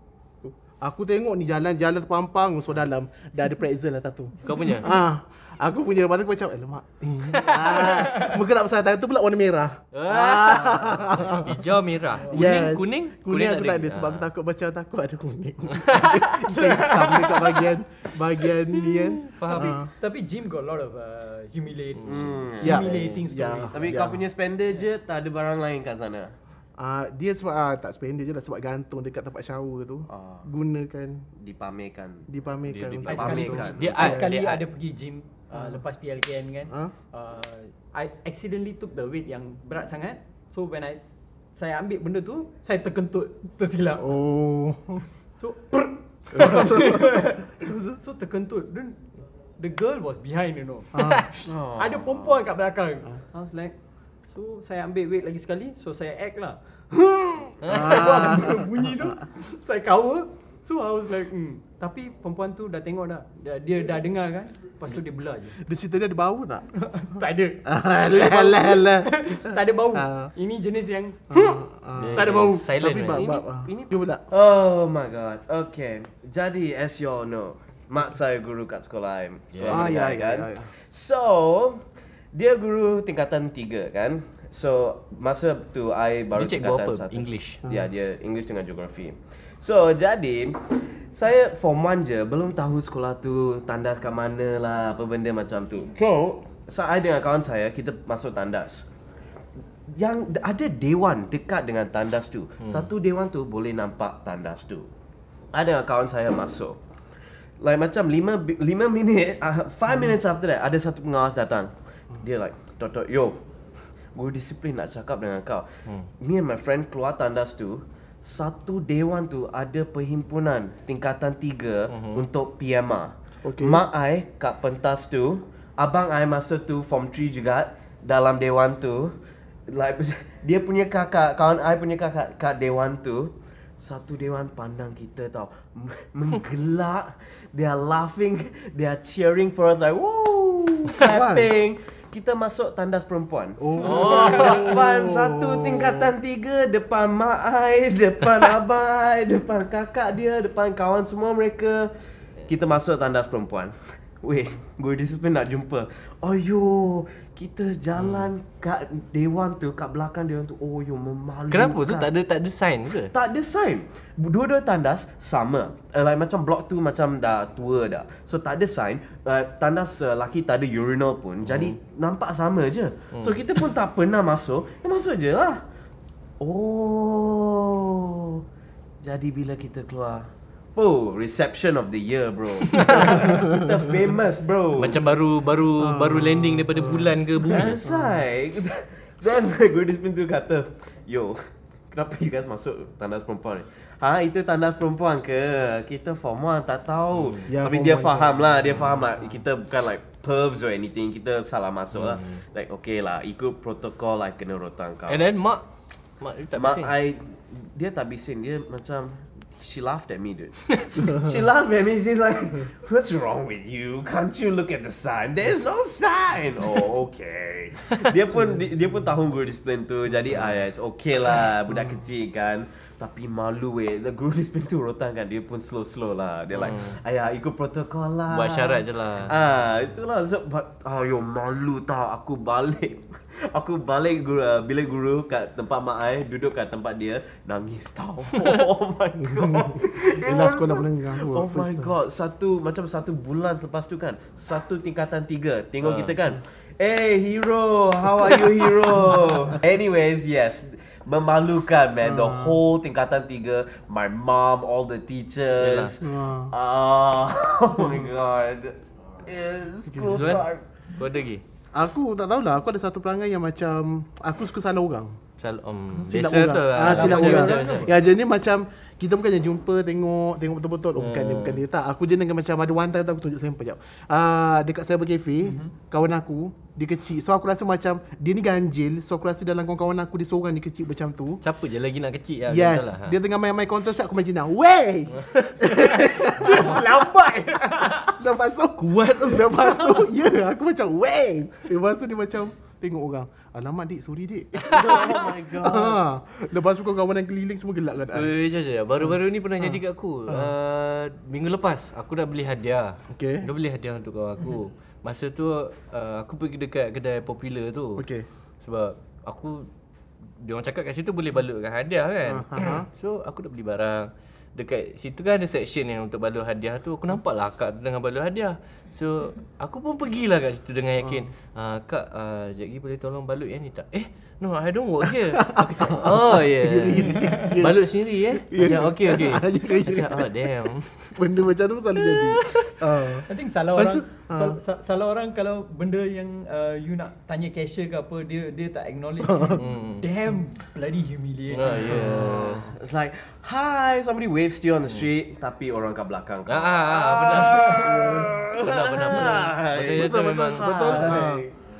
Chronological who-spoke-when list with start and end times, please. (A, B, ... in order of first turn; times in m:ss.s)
0:00.4-0:11.6 A
0:04.4-0:04.9 B
0:07.3-0:08.1 B
0:09.9-0:14.3 B
0:12.3-0:19.9 A
0:15.7-0:16.6 B
0:16.8-0:17.6 C
0:18.9-0:19.8 B
0:19.5-0:24.0 C
0:22.0-0:23.2 B
0:22.0-0:22.8 D
0:22.6-0:24.2 A
0:23.7-0:26.3 D
0:26.8-0:31.3 A
0:30.1-0:30.5 D
0:31.4-0:32.3 D
0:32.3-0:34.2 A
0:32.7-0:34.6 B
0:33.0-0:34.0 D
0:33.1-0:41.0 C
0:41.6-0:44.1 C
0:44.0-0:45.0 A
0:45.4-0:49.0 C
0:46.3-0:48.0 A
0:49.6-0:53.7 C
0:50.9-0:51.3 A
0:51.4-0:52.4 D
0:54.3-1:05.6 C
0:57.6-0:58.4 B
0:57.7-0:59.1 A
1:05.6-1:06.7 A
1:06.8-1:11.5 C
1:07.6-1:10.3 A
1:11.3-1:14.2 A
1:12.0-1:13.3 B
1:12.2-1:12.6 C
1:12.9-1:21.8 D
1:19.5-1:19.9 B
1:19.7-1:20.7 A
1:22.3-1:38.9 D
1:26.3-1:27.6 B
1:39.9-1:44.9 D
1:45.5-1:46.8 D
1:47.6-1:53.4 D
1:54.1-1:55.7 D
1:56.2-2:09.1 D
2:01.9-2:02.2 B
2:03.4-2:03.8 A
2:09.7-2:31.9 D
2:21.0-2:21.4 A
2:23.6-2:26.1 A
2:23.8-2:24.8 B
2:32.4-2:42.1 D
2:38.0-2:38.3 B
2:41.5-2:43.1 B
2:42.9-2:55.6 D
2:51.5-2:51.7 B
2:56.4-2:58.4 D
2:59.0-3:05.0 D
3:02.7-3:03.4 B
3:04.8-3:07.8 B
3:05.8-3:07.1 A
3:07.4-3:11.4 D
3:07.8-3:08.1 A
3:11.9-3:25.3 D
3:17.1-3:17.4 B
3:17.5-3:18.4 A
3:18.7-3:19.0 B
3:21.9-3:22.4 B
3:25.1-3:25.6 B
3:26.2-3:26.9 B
3:26.5-4:20.6 D
3:46.5-3:47.0 B
3:48.3-3:49.3 B
3:59.3-4:01.9 A
4:05.8-4:06.2 B
4:12.0-4:12.6 A
4:15.6-4:15.9 B
4:16.0-4:16.5 A
4:19.9-4:20.4 A
4:20.0-4:21.4 B
4:21.7-4:25.2 A
4:25.4-4:27.9 B
4:26.0-4:41.4 A
4:26.8-4:27.9 C
4:26.9-4:27.2 D
4:31.0-4:31.6 B
4:41.4-4:43.2 B
4:42.5-4:47.0 A
4:45.1-4:45.9 B
4:45.7-4:48.2 C
4:48.0-4:58.3 A
4:48.8-4:50.1 B
4:54.6-4:55.2 B
4:54.6-4:56.0 D
4:58.1-5:08.0 B
4:59.6-5:00.5 A
5:03.1-5:03.5 A
5:08.0-5:08.3 A
5:08.6-5:09.7 B
5:10.4-5:31.2 B
5:12.2-5:12.9 A
5:21.0-5:21.3 A
5:25.3-5:30.5 A
5:31.1-5:33.3 A
5:32.0-5:32.8 B
5:33.3-5:42.0 C
5:34.3-5:34.6 A
5:39.2-5:39.6 A
5:39.6-5:40.1 B
5:41.5-5:42.7 B
5:42.0-5:51.5 D
5:42.1-5:42.4 A
5:46.5-5:51.4 B
5:47.8-5:48.3 A
5:49.9-5:51.5 A